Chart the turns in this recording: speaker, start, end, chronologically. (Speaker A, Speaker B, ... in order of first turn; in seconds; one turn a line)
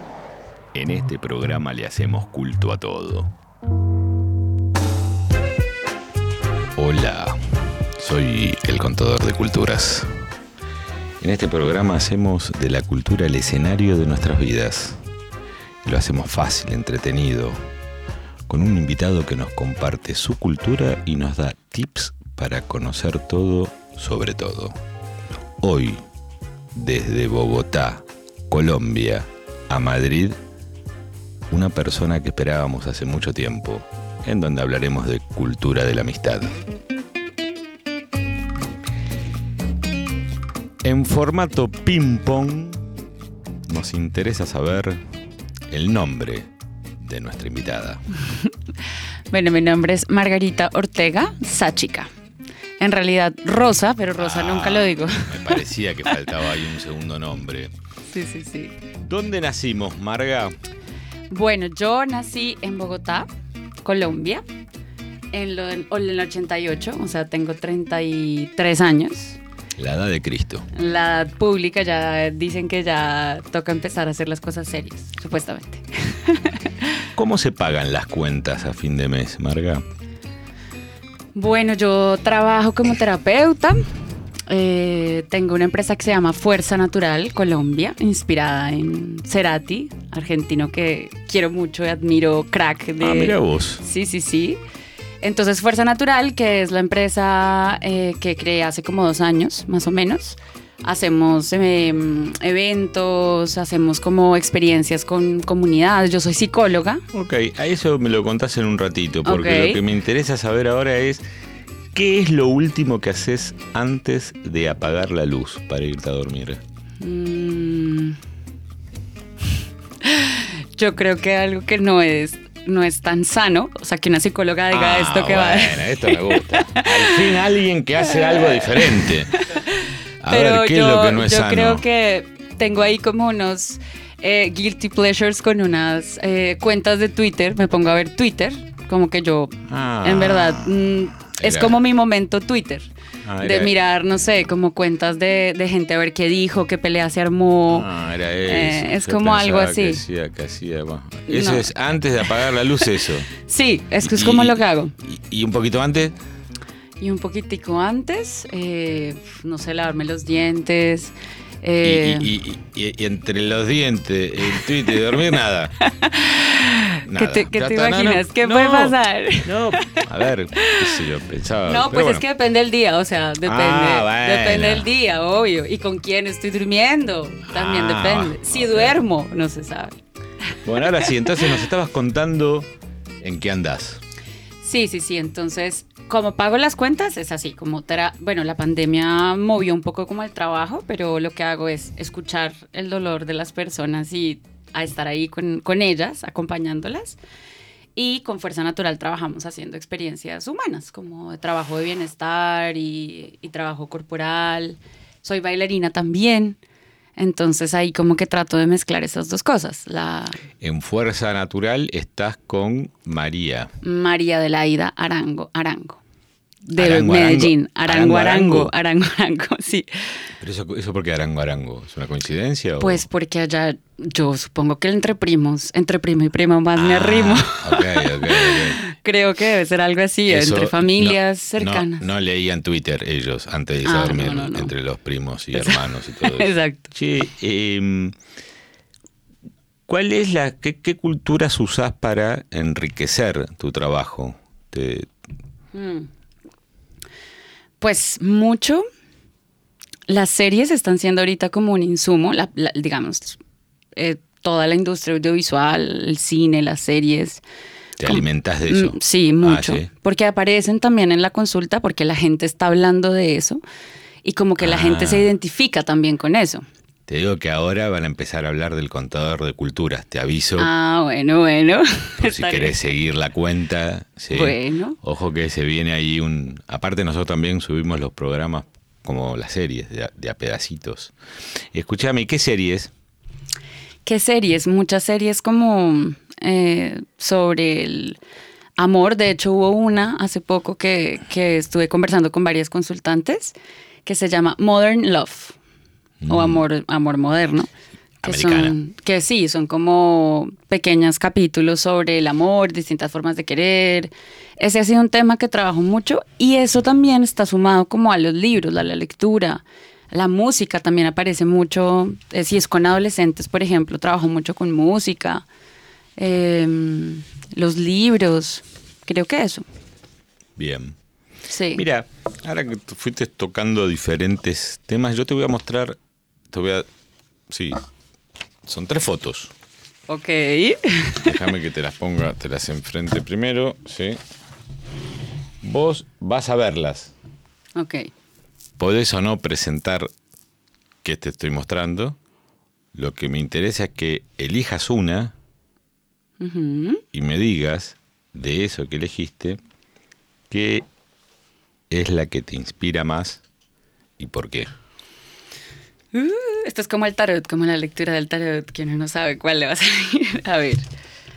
Speaker A: 0.7-3.3
Speaker A: 6.7-10.1
Speaker A: 11.2-15.0
Speaker A: 15.8-17.6
Speaker A: 18.5-24.8
Speaker A: 25.6-26.0
Speaker A: 26.7-30.4
Speaker A: 31.5-36.6
Speaker A: 40.8-42.9
Speaker A: 43.7-45.0
Speaker A: 45.7-46.5
Speaker A: 47.0-48.0
Speaker B: 49.3-52.1
Speaker B: 52.8-55.6
Speaker A: 54.2-57.7
Speaker B: 58.1-58.8
Speaker A: 59.0-60.6
Speaker B: 61.3-63.3
Speaker B: 63.8-64.4
Speaker B: 65.3-69.4
Speaker A: 69.8-70.7
Speaker B: 70.7-77.1
Speaker A: 77.2-79.8
Speaker B: 81.3-83.8
Speaker B: 84.5-94.6
Speaker A: 93.0-93.8
Speaker B: 95.2-107.0
Speaker A: 107.1-111.2
Speaker B: 109.2-109.8
Speaker A: 111.9-116.6
Speaker B: 117.0-118.2
Speaker B: 120.0-127.3
Speaker A: 124.7-129.4
Speaker B: 128.1-147.9
Speaker A: 130.2-131.8
Speaker A: 139.7-140.7
Speaker A: 141.3-141.8
Speaker A: 143.2-143.7
Speaker A: 147.7-153.3
Speaker B: 148.4-150.0
Speaker B: 151.3-151.7
Speaker B: 153.4-154.9
Speaker A: 154.0-156.2
Speaker B: 157.0-162.3
Speaker A: 161.8-165.7
Speaker B: 165.8-169.9
Speaker A: 167.0-172.2
Speaker B: 170.6-171.0
Speaker B: 171.7-180.0
Speaker A: 173.4-174.9
Speaker A: 177.5-179.0
Speaker A: 180.6-182.7
Speaker A: 183.2-184.0
Speaker B: 184.6-197.2
Speaker B: 197.9-206.6
Speaker B: 207.2-210.4
Speaker A: 210.6-213.7
Speaker B: 213.8-216.0
Speaker B: 216.6-219.9
Speaker A: 216.8-218.7
Speaker A: 220.4-223.0
Speaker B: 222.8-232.1
Speaker A: 226.8-228.8
Speaker A: 230.3-238.2
Speaker B: 233.8-234.7
Speaker B: 235.5-236.9
Speaker A: 239.9-245.1
Speaker B: 245.7-246.1
Speaker B: 247.8-248.8
Speaker B: 250.1-253.4
Speaker B: 253.9-257.4
Speaker A: 258.0-259.9
Speaker B: 258.0-263.6
Speaker B: 264.2-266.6
Speaker A: 264.6-265.3
Speaker A: 267.1-270.7
Speaker B: 270.6-272.7
Speaker A: 272.2-281.1
Speaker B: 274.3-275.0
Speaker A: 281.7-282.9
Speaker B: 284.0-288.2
Speaker B: 288.8-295.6
Speaker A: 296.2-296.6
Speaker B: 296.3-297.7
Speaker A: 298.2-298.8
Speaker B: 298.2-315.4
Speaker B: 316.2-319.6
Speaker A: 320.6-320.9
Speaker B: 321.5-321.9
Speaker A: 321.7-326.0
Speaker A: 326.5-326.9
Speaker A: 327.5-327.8
Speaker A: 328.6-329.5
Speaker B: 330.1-331.4
Speaker A: 331.2-334.2
Speaker A: 335.6-337.1
Speaker B: 337.8-338.1
Speaker A: 338.8-340.1
Speaker A: 341.0-342.2
Speaker A: 342.9-345.3
Speaker B: 346.4-347.0
Speaker A: 347.1-349.6
Speaker A: 350.5-350.9
Speaker A: 351.9-353.4
Speaker A: 354.2-354.7
Speaker B: 356.1-360.9